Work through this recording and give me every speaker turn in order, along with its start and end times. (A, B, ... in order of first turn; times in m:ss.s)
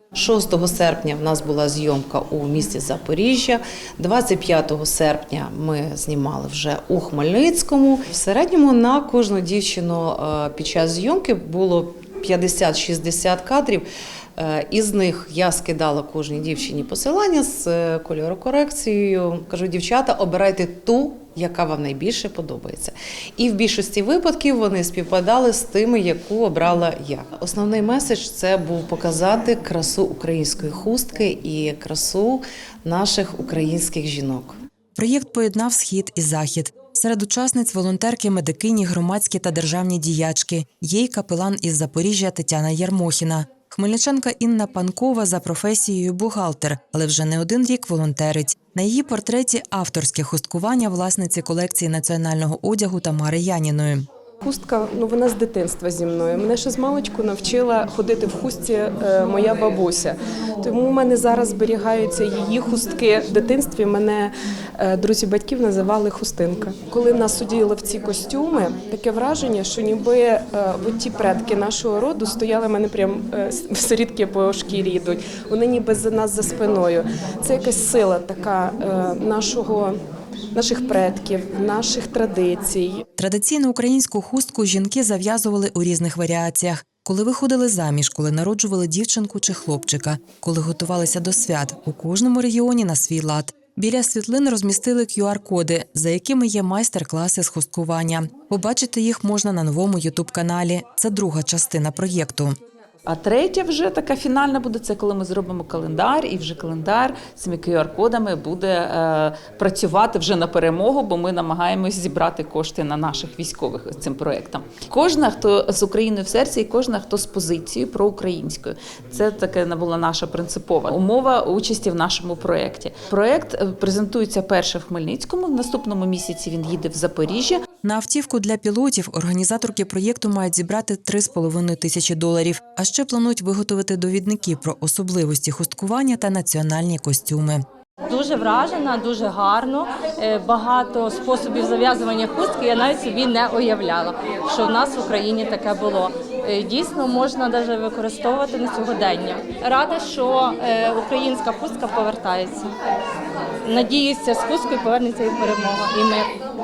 0:00.1-0:34.6 A
0:35.0-0:54.1 B
0:54.4-1:19.9 C
1:20.5-1:23.0 C
1:23.2-1:42.6 B
1:43.1-2:07.6 D
2:07.8-2:17.6 B
2:18.1-2:32.7 E
2:33.6-2:36.3 E